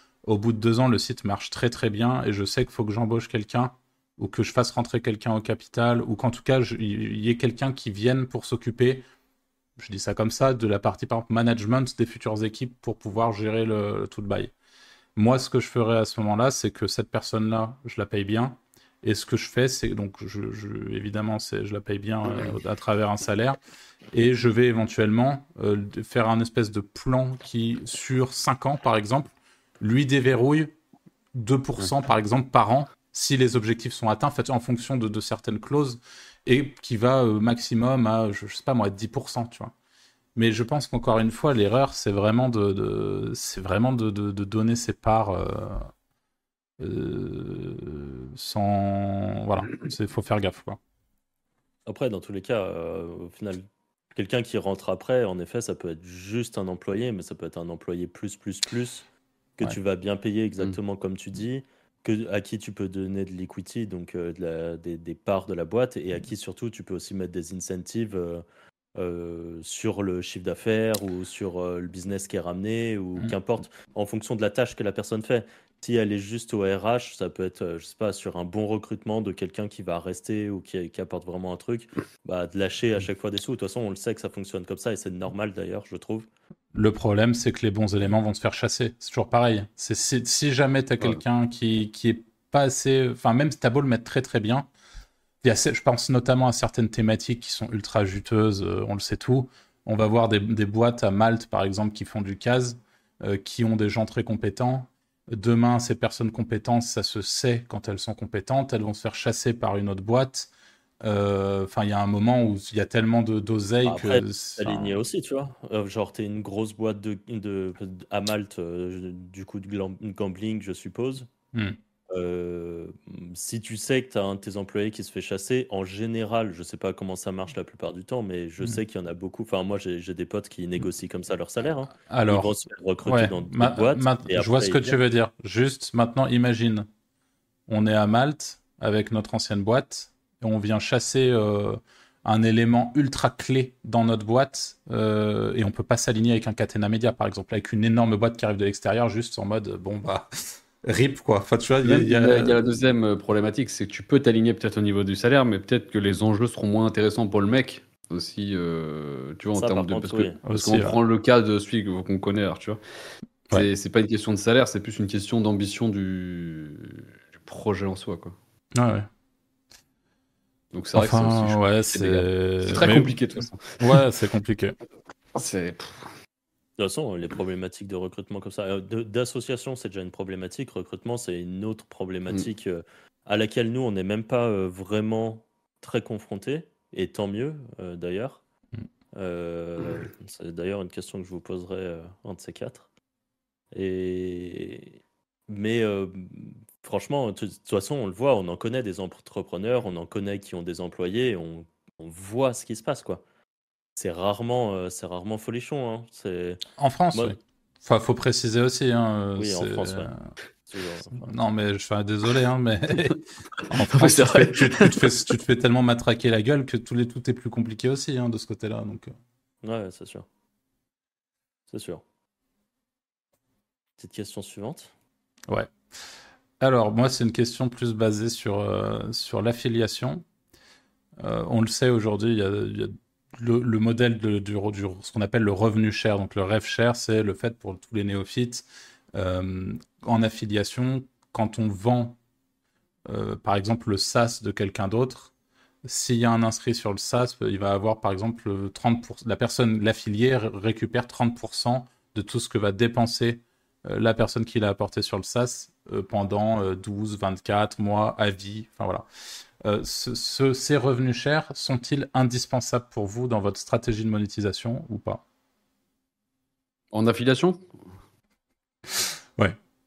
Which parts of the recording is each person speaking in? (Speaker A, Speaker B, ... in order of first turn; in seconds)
Speaker A: 0.2-9.0, 9.8-14.5, 15.2-23.6, 24.1-30.7, 31.3-39.7, 40.4-45.9, 46.8-50.8, 86.7-94.7, 95.4-110.5, 111.0-115.0, 121.5-121.8, 132.1-136.9, 137.7-152.6, 160.4-161.0, 168.8-169.1, 170.9-173.2, 173.8-174.8, 206.8-210.2, 211.1-219.1, 226.6-230.2, 231.2-242.2, 243.1-245.3, 245.8-259.1, 259.6-265.2, 269.0-269.6
Speaker B: 51.9-59.0, 59.6-68.4, 69.0-86.3, 113.8-121.3, 122.1-135.0, 159.6-160.4, 176.8-188.4, 189.1-192.9, 193.7-203.2, 204.0-206.6, 209.4-210.1, 210.7-211.2, 219.6-220.3, 221.7-222.0, 224.0-224.9
Speaker C: 151.8-162.8, 163.5-168.3, 170.7-174.0, 175.3-176.1, 213.6-215.3, 266.9-267.6